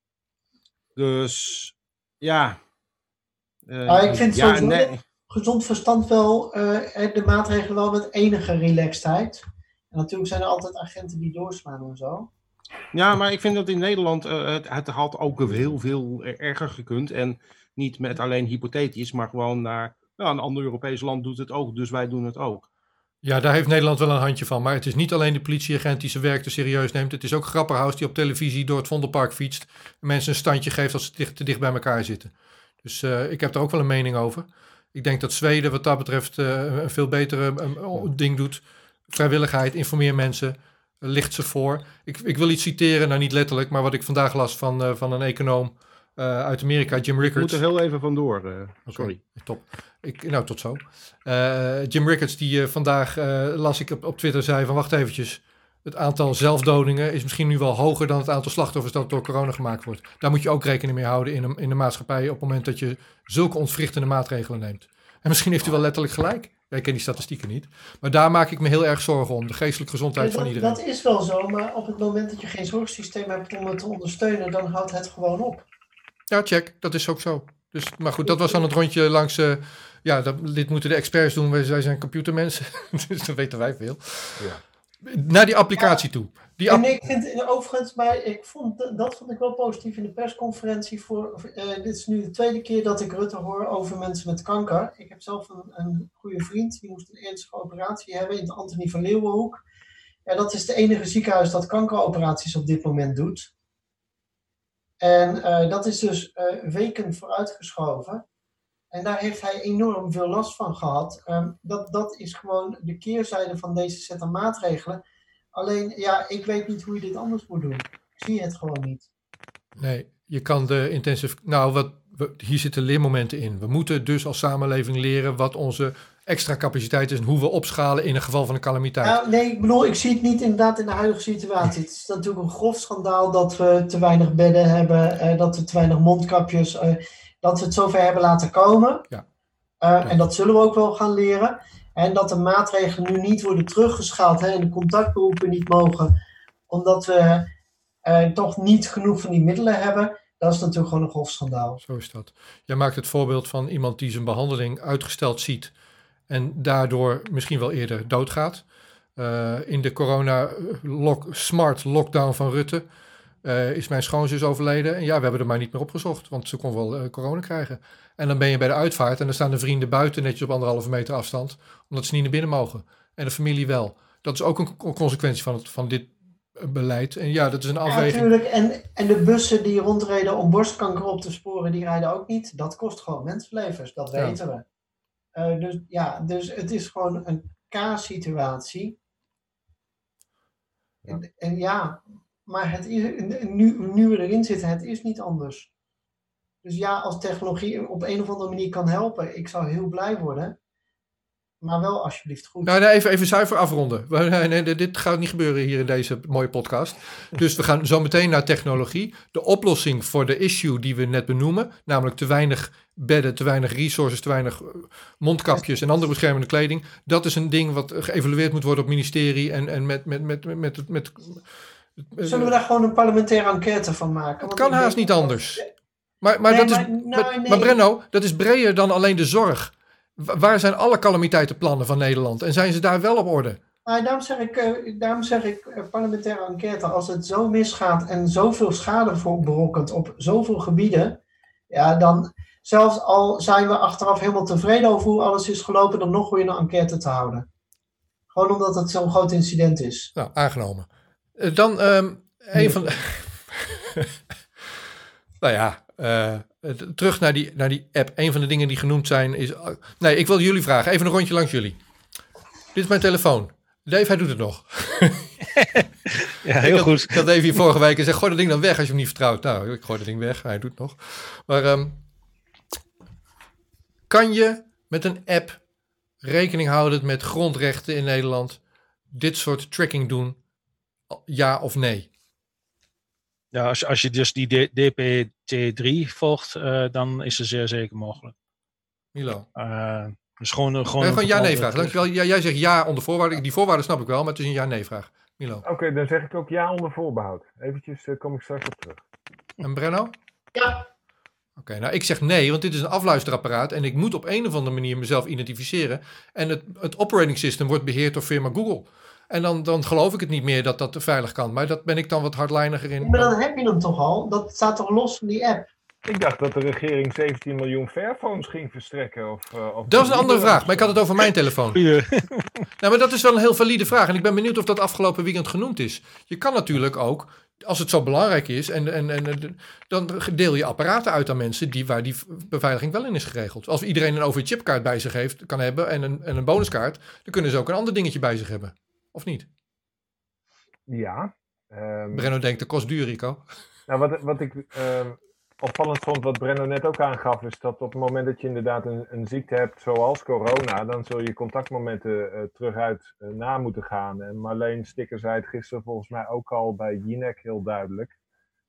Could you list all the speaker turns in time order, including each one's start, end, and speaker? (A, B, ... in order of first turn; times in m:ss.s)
0:01.0-0:02.6 A
0:03.7-0:05.0 A
0:03.8-0:12.3 B
0:12.9-0:22.7 A
0:23.2-0:47.6 C
0:47.2-0:49.2 A
0:48.9-1:10.8 C
1:10.2-1:15.6 B
1:16.3-1:26.9 C
1:18.2-1:18.6 B
1:26.7-1:39.6 B
1:40.2-1:43.5 B
1:45.0-1:48.2 B
1:48.9-1:55.0 B
1:55.5-1:59.1 B
1:59.8-2:09.2 C
2:09.0-2:19.0 B
2:19.8-2:26.1 B
2:26.7-2:27.4 B
2:28.0-2:31.8 B
2:31.8-2:35.7 C
2:36.3-2:38.6 C
2:39.2-2:42.9 C
2:43.4-2:58.3 C
2:57.8-3:04.6 B
3:05.4-3:09.0 B
3:11.1-3:15.7 B
3:16.6-3:20.6 B
3:21.6-3:22.7 B
3:22.6-3:41.4 C
3:42.0-3:42.5 C
3:42.2-3:45.7 B
3:44.4-3:45.6 C
3:46.2-3:53.6 C
3:46.5-3:47.8 B
3:53.8-4:01.2 B
4:01.7-4:07.4 B
4:08.3-4:10.1 B
4:10.2-4:14.2 C
4:15.4-4:21.8 C
4:22.7-4:25.3 C
4:25.6-4:27.2 D
4:26.6-4:32.0 C
4:34.1-4:35.6 C
4:36.2-4:38.6 C
4:39.1-4:40.4 C
4:41.1-4:42.1 C
4:43.5-4:48.3 D
4:49.1-4:49.5 C
4:49.6-4:52.0 D
4:51.0-4:55.6 C
4:55.6-4:59.0 E
4:59.6-5:00.1 C
5:00.6-5:00.8 B
5:01.6-5:13.3 C
5:13.0-5:15.7 B
5:16.0-5:21.0 E
5:19.9-5:21.8 C
5:21.7-5:22.6 D
5:22.8-5:39.5 C
5:40.9-5:42.3 E
5:42.1-5:43.4 C
5:43.9-5:58.1 E